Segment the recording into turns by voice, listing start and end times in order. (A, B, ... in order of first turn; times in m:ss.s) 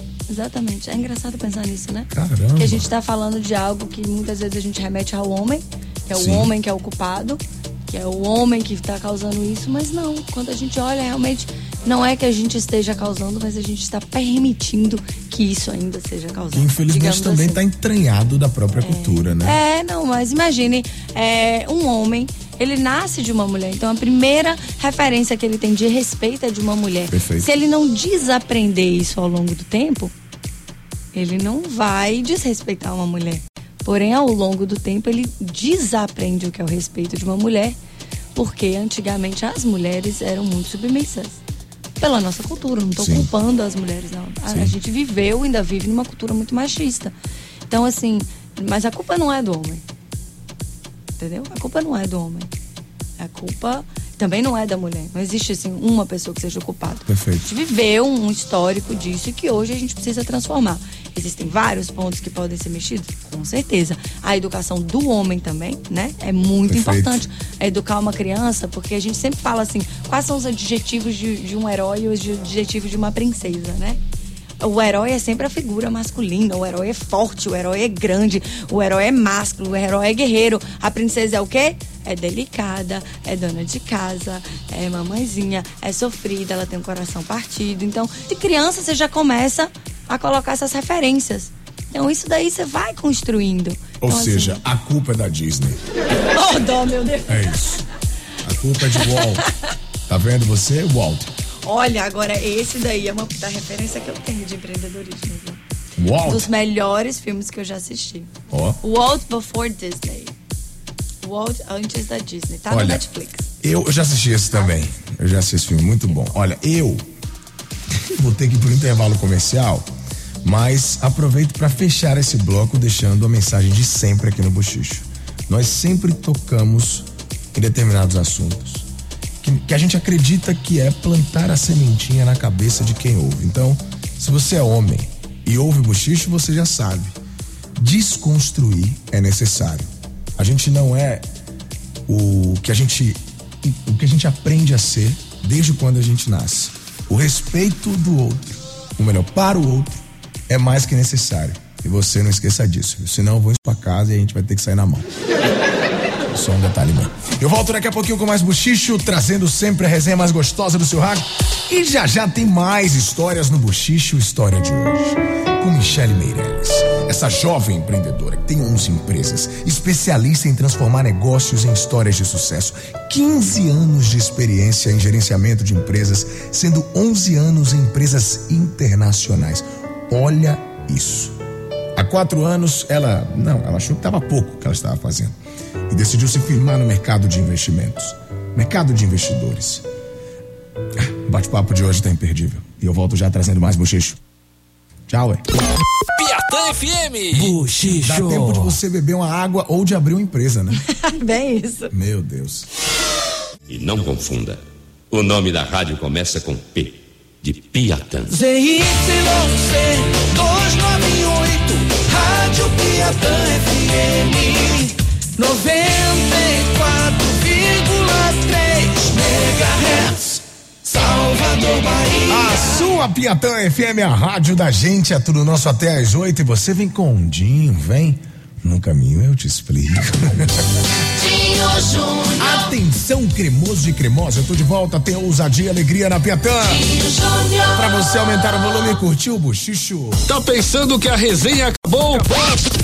0:00.3-0:17.6 A
0:02.1-0:02.9 B
0:06.1-0:06.5 B
0:16.5-0:19.6 B
0:18.8-0:30.1 A
0:27.1-0:27.5 B
0:31.1-0:37.8 A
0:38.4-0:41.4 A
0:42.0-0:47.1 A
0:43.0-0:43.3 B
0:44.5-0:44.7 B
0:47.7-0:49.8 A
0:51.2-0:52.5 A
0:53.2-1:14.0 A
0:57.1-0:57.5 B
1:06.7-1:07.3 B
1:14.6-1:34.6 A
1:34.0-1:35.8 B
1:36.3-1:37.6 A
1:37.3-1:37.8 B
1:38.4-1:39.4 B
1:39.0-1:39.5 A
1:40.1-1:41.3 B
1:41.6-1:45.6 A
1:46.0-1:46.5 B
1:46.2-1:48.3 A
1:48.5-1:48.8 B
1:48.8-1:50.4 A
1:51.2-1:53.4 A
1:52.7-1:53.0 B
1:53.6-1:57.1 B
1:57.9-1:59.9 B
2:00.4-2:08.9 B
2:09.4-2:17.2 B
2:17.8-2:21.3 B
2:22.1-2:35.1 B
2:36.3-3:01.4 B
3:02.0-3:05.4 B
3:05.9-3:09.8 B
3:11.0-3:14.2 B
3:15.1-3:15.4 B
3:16.2-3:18.7 C
3:17.4-3:20.8 B
3:20.8-3:21.9 A
3:21.9-3:22.7 B
3:23.7-3:28.4 D
3:28.3-3:42.8 E
3:42.3-3:50.7 B
3:52.4-3:57.0 B
3:57.7-4:00.2 B
4:00.3-4:02.6 C